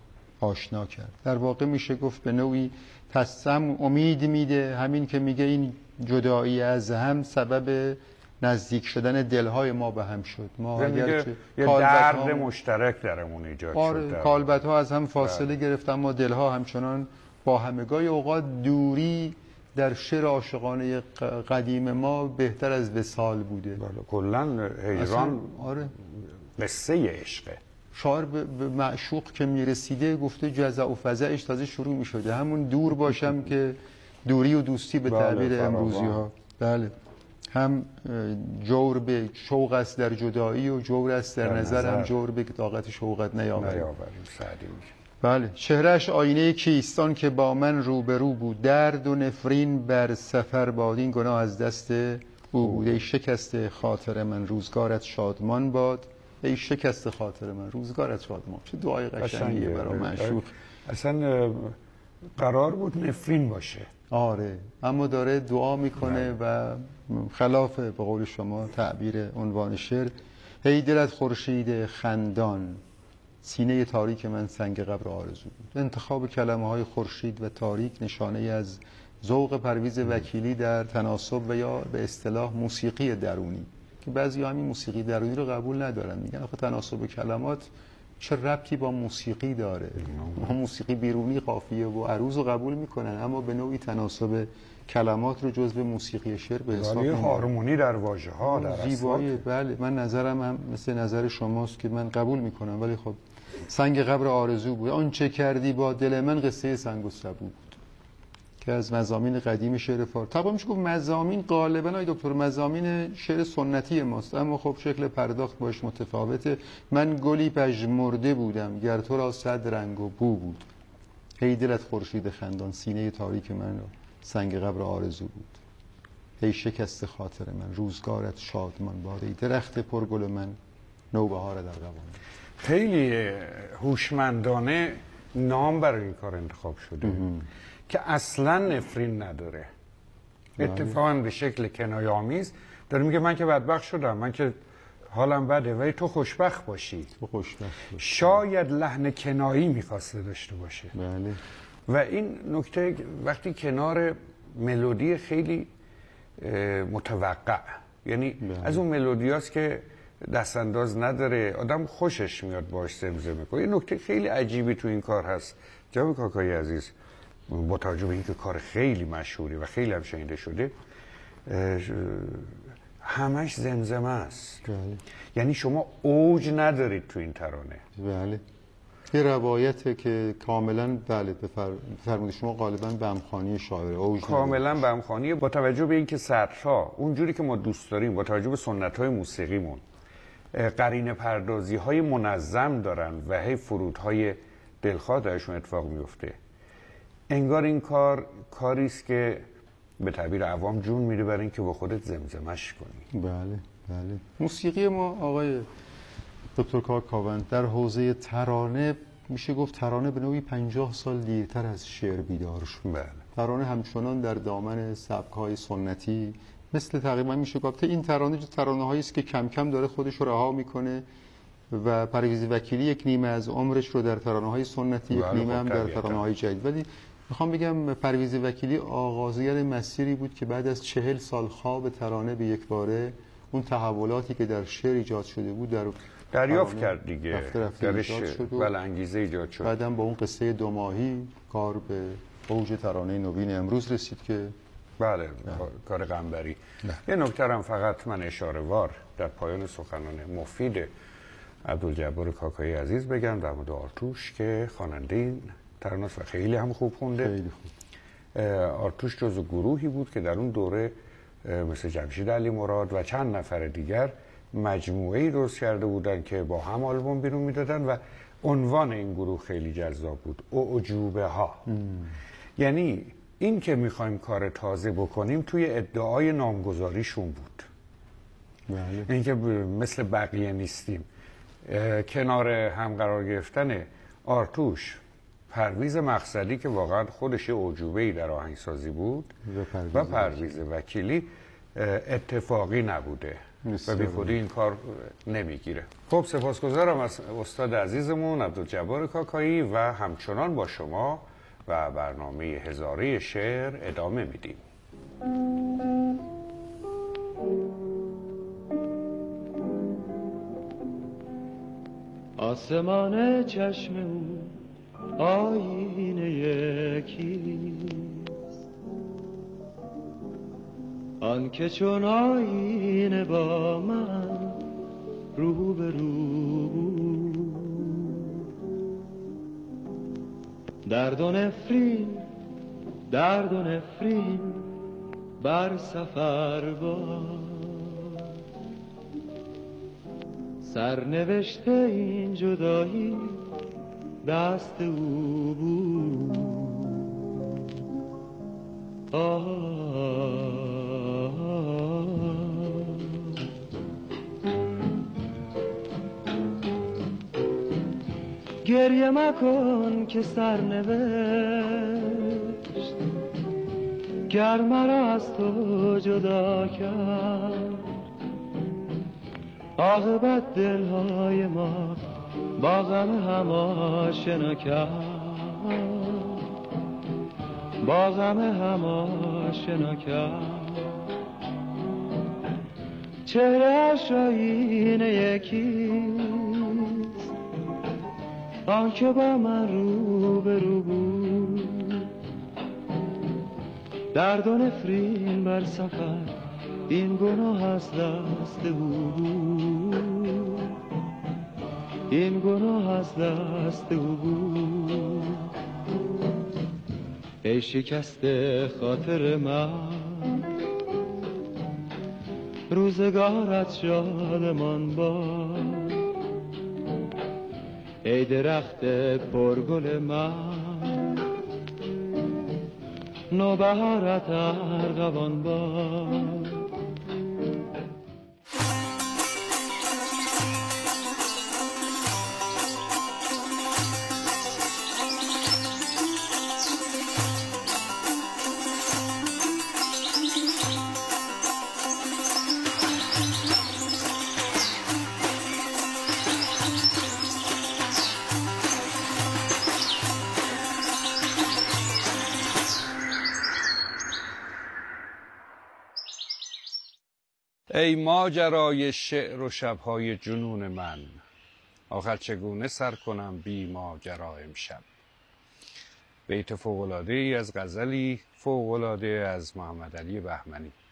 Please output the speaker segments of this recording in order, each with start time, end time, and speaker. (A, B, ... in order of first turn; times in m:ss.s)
0:00.4-0:12.5 A
0:10.8-0:14.5 B
0:13.7-0:23.8 A
0:15.2-0:15.5 B
0:23.8-0:27.6 B
0:24.9-0:25.9 A
0:27.9-0:36.9 A
0:35.1-0:36.2 B
0:37.5-0:43.9 A
0:41.4-0:42.1 B
0:43.6-0:44.9 B
0:45.2-1:00.5 A
0:52.6-0:53.0 B
0:59.2-1:01.8 B
1:02.4-1:03.9 B
1:04.1-1:12.8 A
1:13.4-1:37.5 A
1:30.2-1:30.4 B
1:36.7-1:39.4 B
1:38.4-1:47.8 A
1:48.6-2:00.7 A
2:01.4-2:05.6 A
2:06.4-2:10.6 A
2:11.1-2:12.2 A
2:12.6-2:17.2 B
2:17.0-2:17.5 A
2:17.9-2:19.7 B
2:20.6-2:21.0 A
2:20.6-2:24.6 B
2:25.1-2:27.1 B
2:27.2-2:28.4 A
2:28.0-2:30.9 B
2:30.9-2:31.4 A
2:31.9-2:35.7 B
2:36.4-2:46.9 B
2:38.4-2:38.8 A
2:47.5-2:50.7 B
2:51.5-2:54.6 B
2:54.6-2:55.0 A
2:55.3-2:57.8 B
2:58.0-2:58.4 A
2:59.1-3:04.8 A
3:04.2-3:09.8 B
3:10.5-3:16.4 B
3:17.3-3:19.5 B
3:20.0-3:23.1 B
3:23.1-3:25.7 A
3:26.6-3:41.0 A
3:32.8-3:33.2 B
3:41.7-3:58.7 A
3:45.1-3:46.2 B
3:56.3-3:59.7 B
3:59.6-4:04.6 A
4:05.0-4:10.9 B
4:11.6-4:17.4 B
4:17.2-4:17.7 A
4:18.3-4:31.7 B
4:31.7-4:32.2 A
4:32.6-4:37.7 B
4:38.7-4:39.1 A
4:39.1-4:41.1 B
4:41.6-4:49.3 B
4:49.4-4:50.5 A
4:49.9-5:04.6 B
4:53.6-4:54.4 A
5:12.4-5:14.6 C
5:15.2-5:18.4 C
5:21.2-5:24.6 C
5:25.3-5:28.4 C
5:30.8-5:32.3 C
5:33.1-5:34.7 C
5:35.4-5:38.3 C
5:40.6-5:43.4 C
5:44.2-5:47.4 C
5:49.1-5:53.4 C
5:58.6-6:03.0 C
6:04.3-6:07.9 C
6:09.8-6:16.5 C
6:17.8-6:21.1 C
6:23.2-6:27.3 C
6:28.7-6:32.1 C
6:34.1-6:40.8 C
6:42.1-6:45.5 C
6:47.4-6:50.5 C
6:52.7-6:56.0 C
6:58.0-7:01.2 C
7:03.3-7:06.6 C
7:37.7-7:41.2 B
7:41.9-7:44.8 B
7:46.3-7:50.8 B